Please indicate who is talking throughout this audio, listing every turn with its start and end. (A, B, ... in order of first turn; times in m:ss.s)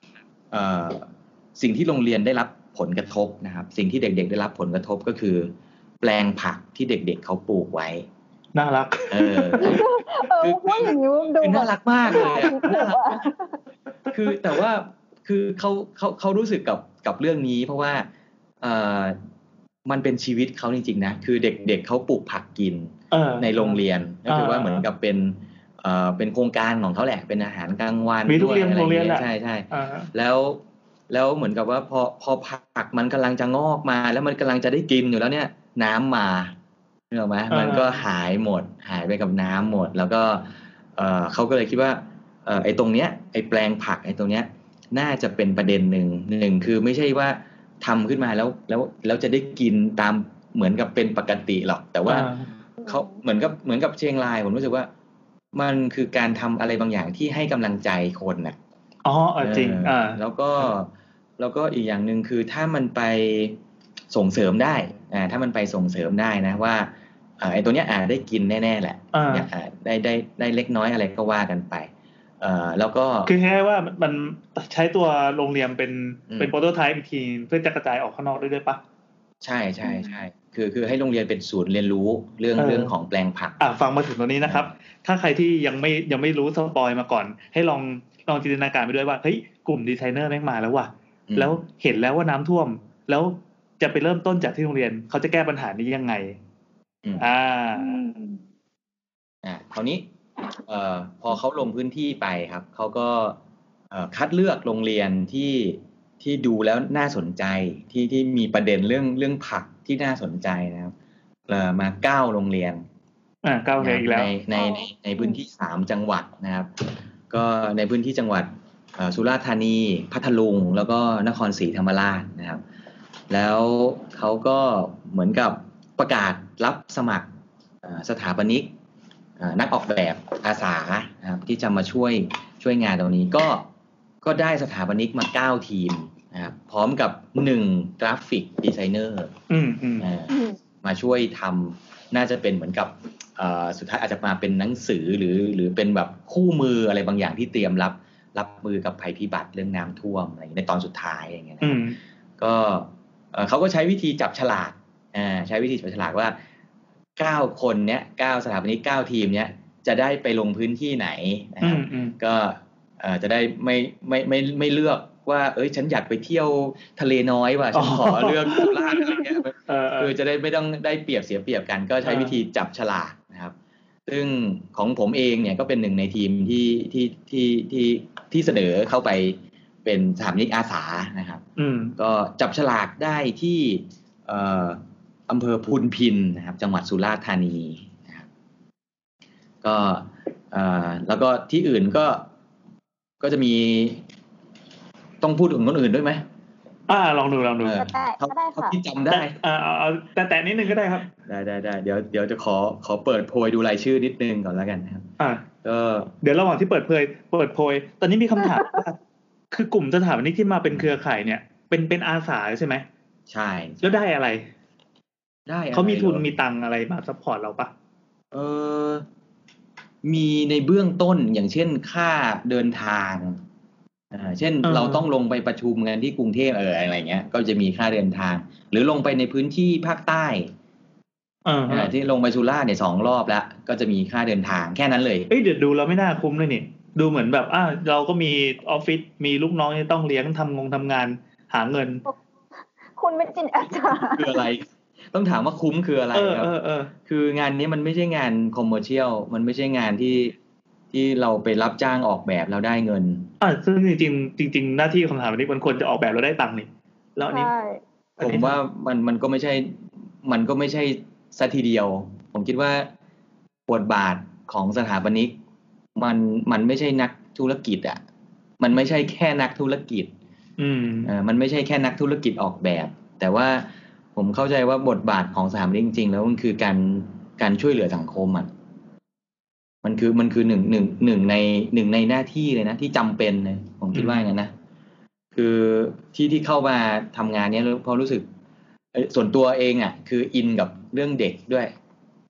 0:00.5-0:08.0 A
0:08.5-0:09.8 B
0:09.1-0:13.2 A
0:09.6-0:13.6 C
0:12.2-0:12.5 B
0:14.1-0:14.4 B
0:14.1-0:18.1 A
0:18.6-0:19.2 A
0:19.8-0:36.5 A
0:23.1-0:24.9 B
0:28.3-0:30.1 B
0:37.1-0:52.3 A
0:37.5-0:38.0 B
0:52.0-0:52.4 B
0:52.8-0:53.2 C
0:52.8-0:54.9 A
0:55.5-0:58.6 A
0:59.0-1:00.7 B
0:59.4-1:03.6 A
1:04.1-1:13.3 A
1:09.1-1:09.5 B
1:13.2-1:18.8 B
1:19.4-1:23.6 A
1:22.6-1:22.9 B
1:23.6-1:36.4 B
1:31.3-1:31.6 A
1:37.2-1:38.0 B
1:37.8-1:38.4 C
1:39.4-1:40.0 A
1:40.6-1:43.4 A
1:43.9-1:50.9 A
1:51.5-1:52.8 A
1:53.4-1:54.3 B
1:53.8-2:02.6 A
1:54.5-1:55.4 C
2:03.3-2:07.3 A
2:07.8-2:08.7 A
2:09.4-2:13.7 A
2:14.2-2:19.3 A
2:19.5-2:20.1 B
2:20.0-2:31.8 A
2:20.3-2:20.6 C
2:31.6-2:32.0 B
2:32.4-2:36.4 A
2:37.2-2:53.5 A
2:41.6-2:42.2 B
2:47.7-2:48.8 B
2:49.7-2:50.1 B
2:52.0-2:52.4 B
2:54.1-3:01.4 A
3:01.6-3:02.0 B
3:02.0-3:08.2 A
3:09.6-3:12.2 A
3:13.2-3:14.0 A
3:15.2-3:16.2 A
3:16.9-3:17.8 B
3:17.6-3:19.3 A
3:17.8-3:18.8 C
3:19.1-3:21.1 B
3:21.2-3:25.1 A
3:25.2-3:25.4 B
3:25.6-3:26.1 A
3:26.2-3:29.0 B
3:28.4-3:28.8 C
3:29.5-3:32.8 B
3:33.3-3:34.0 A
3:33.8-3:34.5 B
3:35.5-3:36.3 A
3:35.7-3:37.7 B
3:38.3-3:39.0 A
3:40.0-3:43.4 A
3:44.1-3:50.5 A
3:44.6-3:45.1 B
3:51.4-3:51.9 B
3:51.7-3:55.3 A
3:55.3-4:02.0 B
4:03.0-4:04.4 C
4:03.9-4:06.5 A
4:06.1-4:06.9 B
4:07.0-4:10.3 A
4:10.9-4:13.3 A
4:13.4-4:17.5 B
4:17.3-4:17.8 C
4:18.2-4:18.6 B
4:18.2-4:22.9 A
4:23.7-4:25.4 A
4:26.0-4:28.0 A
4:28.6-4:30.1 A
4:30.6-4:31.1 B
4:31.0-4:38.5 A
4:39.8-4:44.5 A
4:43.9-4:44.3 B
4:45.3-4:48.2 A
4:48.9-4:51.7 A